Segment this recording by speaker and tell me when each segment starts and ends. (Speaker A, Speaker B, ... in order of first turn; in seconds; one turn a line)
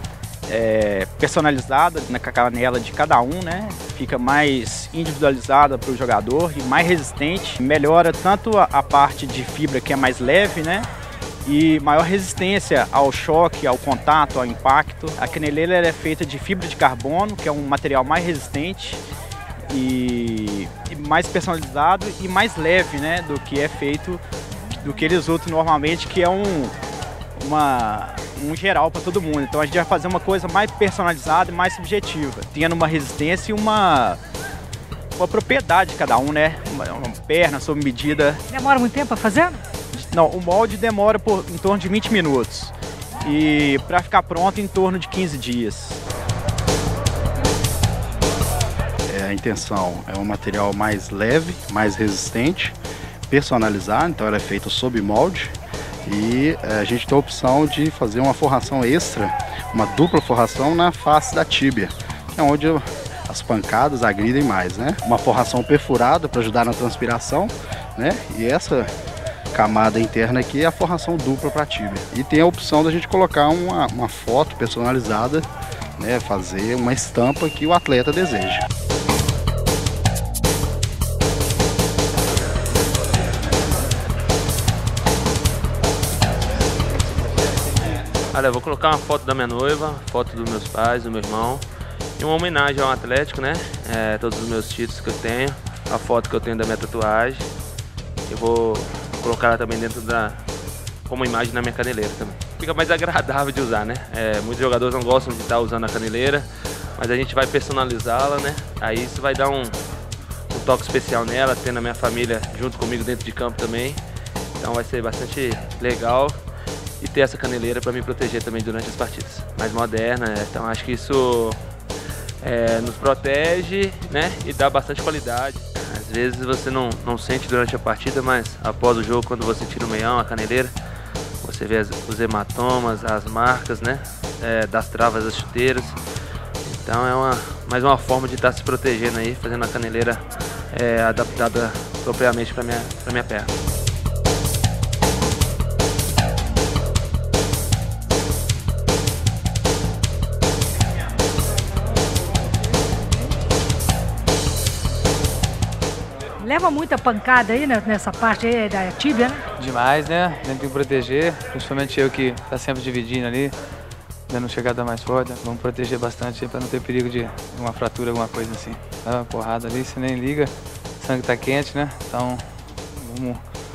Speaker A: 0.5-10.9
Speaker A: 11.4-19.0
Speaker A: 19.7-26.7
Speaker A: 27.4-34.2
Speaker A: 35.2-38.4
Speaker B: 38.5-39.6
Speaker A: 39.9-46.0
Speaker C: 49.1-52.8
Speaker C: 53.3-55.5
Speaker C: 56.0-68.9
Speaker C: 69.5-75.5
Speaker C: 76.0-78.6
Speaker D: 88.3-91.7
Speaker D: 92.2-97.5
Speaker D: 98.3-100.4
Speaker D: 101.1-109.8
Speaker D: 110.5-114.0
Speaker D: 114.6-116.4
Speaker D: 117.0-121.6
Speaker D: 122.4-130.7
Speaker D: 131.4-136.0
Speaker D: 136.7-143.5
Speaker B: 156.4-159.4
Speaker E: 159.6-163.6
Speaker E: 164.3-173.4